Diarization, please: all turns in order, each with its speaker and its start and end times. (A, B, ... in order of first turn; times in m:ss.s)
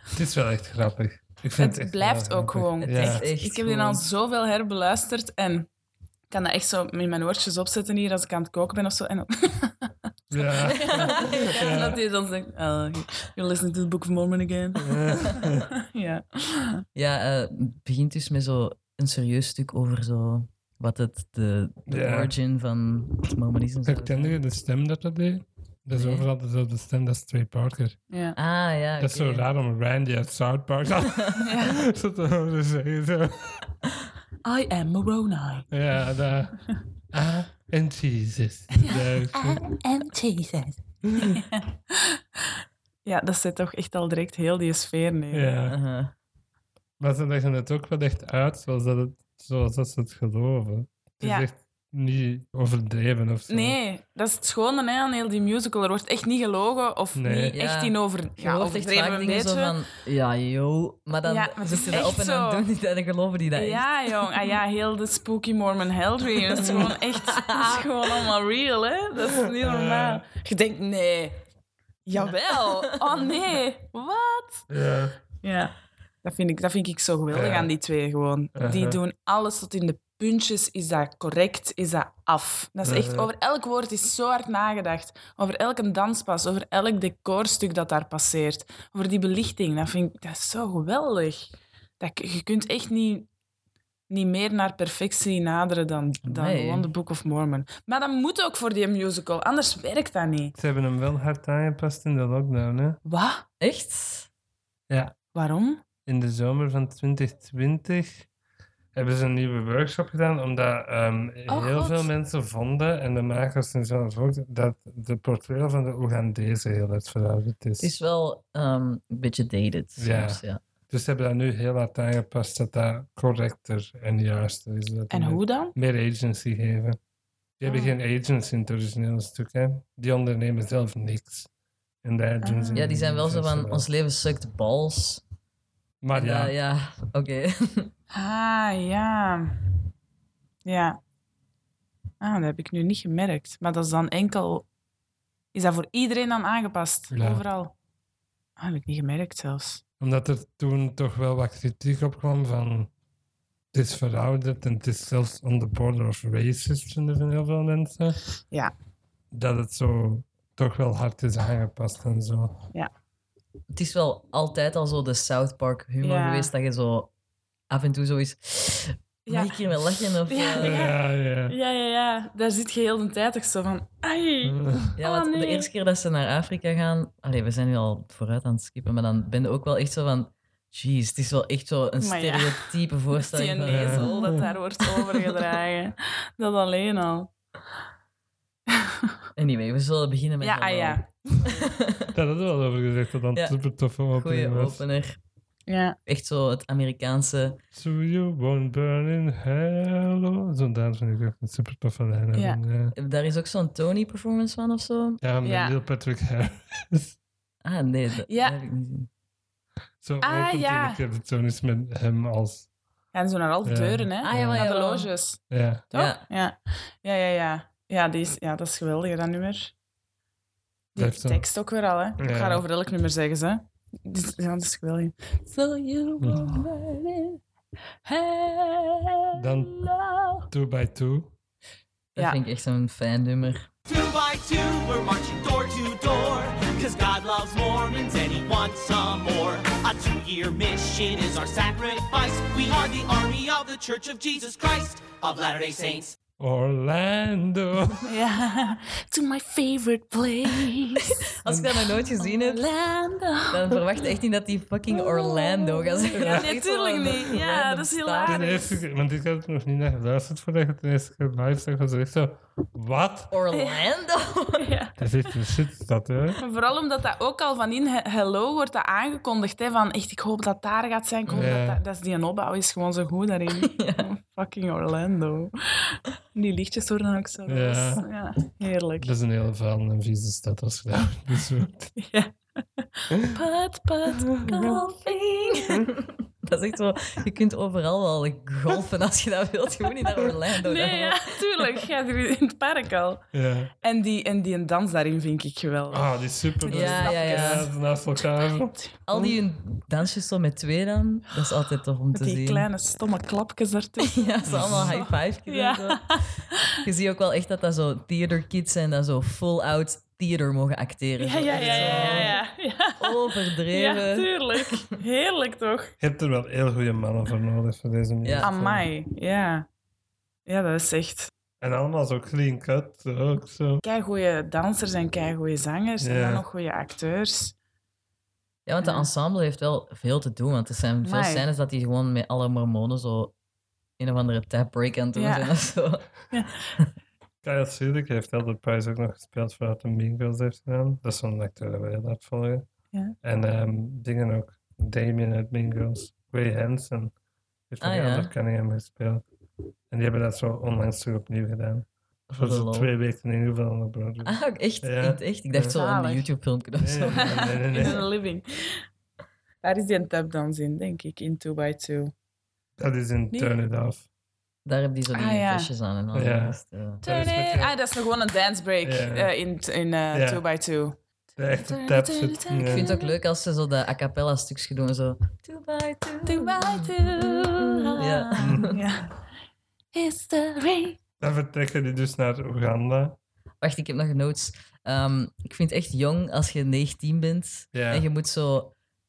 0:00.1-0:03.2 A
0:01.6-0:05.7 B
0:02.8-0:04.0 C
0:06.3-0:09.9 B
0:10.3-0:12.0 A
0:10.7-0:16.8 B
0:10.7-0:11.8 C
0:14.8-0:15.7 A
0:16.9-0:24.4 C
0:21.9-0:22.3 A
0:23.8-0:28.0 A
0:25.9-0:26.2 C
0:28.1-0:28.4 B
0:28.3-0:29.4 C
0:29.0-0:33.6 A
0:31.4-0:31.8 B
0:34.4-0:35.7 B
0:35.7-0:39.6 A
0:38.8-0:42.2 B
0:41.1-0:41.4 A
0:43.0-0:45.5 B
0:45.3-0:45.7 A
0:45.7-0:46.1 C
0:47.0-0:53.8 A
0:51.2-0:51.5 B
0:53.5-0:59.7 B
0:57.2-0:57.6 A
0:57.5-1:04.3 C
1:01.2-1:02.6 B
1:03.5-1:11.4 B
1:06.5-1:07.9 C
1:09.3-1:10.2 A
1:12.0-1:14.7 B
1:12.2-1:13.0 C
1:14.7-1:15.2 A
1:15.4-1:15.7 B
1:16.2-1:31.5 B
1:17.3-1:17.7 A
1:18.6-1:19.0 A
1:22.8-1:23.3 A
1:32.0-1:33.3 B
1:34.1-1:40.5 B
1:36.2-1:36.9 C
1:40.6-1:43.0 A
1:43.0-1:43.4 B
1:43.6-1:44.3 C
1:44.9-1:45.1 A
1:45.3-1:45.8 B
1:46.0-1:48.3 A
1:48.9-1:57.9 A
1:51.5-1:52.1 B
1:57.8-2:00.6 C
2:00.0-2:07.0 A
2:05.1-2:05.7 B
2:07.6-2:11.5 A
2:07.6-2:07.9 B
2:12.0-2:13.9 A
2:12.4-2:12.8 B
2:12.7-2:15.2 C
2:16.0-2:16.5 A
2:16.1-2:17.9 C
2:18.1-2:19.6 B
2:20.6-2:21.0 B
2:22.2-2:24.7 B
2:25.5-2:27.7 B
2:27.1-2:27.4 A
2:28.6-2:29.8 B
2:30.0-2:32.9 A
2:33.7-2:38.2 A
2:39.3-2:42.6 A
2:43.7-2:47.1 C
2:46.0-2:46.5 B
2:47.7-2:50.8 C
2:49.3-2:49.7 B
2:50.2-2:55.7 B
2:50.6-2:51.6 A
2:54.4-2:54.9 A
2:55.0-3:05.5 C
3:02.0-3:07.3 B
3:03.7-3:04.4 A
3:08.7-3:09.1 B
3:09.4-3:12.1 C
3:10.4-3:11.2 B
3:12.1-3:14.8 A
3:13.3-3:13.6 C
3:14.1-3:15.2 C
3:15.7-3:16.0 B
3:16.0-3:17.6 C
3:17.7-3:22.9 A
3:22.3-3:22.6 B
3:22.9-3:25.2 C
3:25.2-3:27.2 A
3:25.4-3:25.7 B
3:27.6-3:29.1 C
3:28.3-3:28.6 B
3:30.0-3:32.7 A
3:30.2-3:31.0 B
3:33.1-3:39.7 B
3:33.6-3:34.6 A
3:34.2-3:35.1 C
3:35.5-3:35.8 A
3:35.9-3:36.2 C
3:40.9-3:47.4 B
3:41.0-3:41.4 A
3:42.2-3:42.6 A
3:46.2-3:46.6 A
3:48.0-3:50.5 B
3:49.3-3:49.7 A
3:50.5-3:51.3 A
3:52.1-3:53.7 C
3:53.9-4:06.2 D
4:06.4-4:08.0 A
4:08.0-4:13.8 B
4:11.1-4:12.6 C
4:13.5-4:18.4 C
4:16.1-4:16.5 A
4:16.1-4:18.8 B
4:18.2-4:23.3 A
4:23.3-4:24.7 C
4:23.5-4:23.8 B
4:24.6-4:24.9 B
4:25.0-4:26.4 A
4:26.4-4:39.1 B
4:31.3-4:31.8 A
4:33.6-4:34.1 C
4:37.4-4:38.1 A
4:39.0-4:41.9 A
4:42.0-4:45.2 B
4:44.3-4:44.8 A
4:44.5-4:51.8 C
4:50.6-4:53.2 B
4:53.3-4:53.7 A
4:53.8-4:57.7 B
4:55.9-4:59.4 A
4:56.7-4:57.7 C
4:59.1-5:02.7 C
5:02.1-5:06.2 B
5:04.1-5:12.4 C
5:04.5-5:05.0 A
5:11.2-5:15.9 B
5:11.5-5:12.4 A
5:13.0-5:14.8 C
5:16.0-5:18.7 A
5:18.2-5:18.8 C
5:18.4-5:19.6 B
5:20.4-5:21.3 B
5:21.6-5:23.8 A
5:23.8-5:27.5 B
5:26.0-5:26.4 A
5:28.6-5:33.3 C
5:28.8-5:29.1 B
5:31.0-5:31.5 B
5:34.0-5:36.0 C
5:35.2-5:35.5 B
5:36.3-5:36.7 B
5:37.4-5:42.7 A
5:43.2-5:47.1 A
5:47.7-5:49.2 A
5:47.8-5:48.3 C
5:49.9-5:55.7 A
5:52.3-5:52.9 C
5:54.2-5:57.9 C
5:55.6-5:56.3 B
5:56.8-5:58.1 A
5:57.1-5:58.8 B
5:59.6-6:02.1 B
6:02.8-6:04.0 A
6:04.6-6:07.0 C
6:05.1-6:05.7 B
6:06.1-6:07.8 A
6:07.0-6:13.1 B
6:08.8-6:09.3 A
6:10.1-6:10.4 A
6:11.4-6:12.8 A
6:12.7-6:18.8 C
6:16.2-6:19.1 B
6:18.4-6:18.7 A
6:19.9-6:21.0 B
6:21.2-6:23.2 A
6:23.6-6:28.7 C
6:27.7-6:28.0 A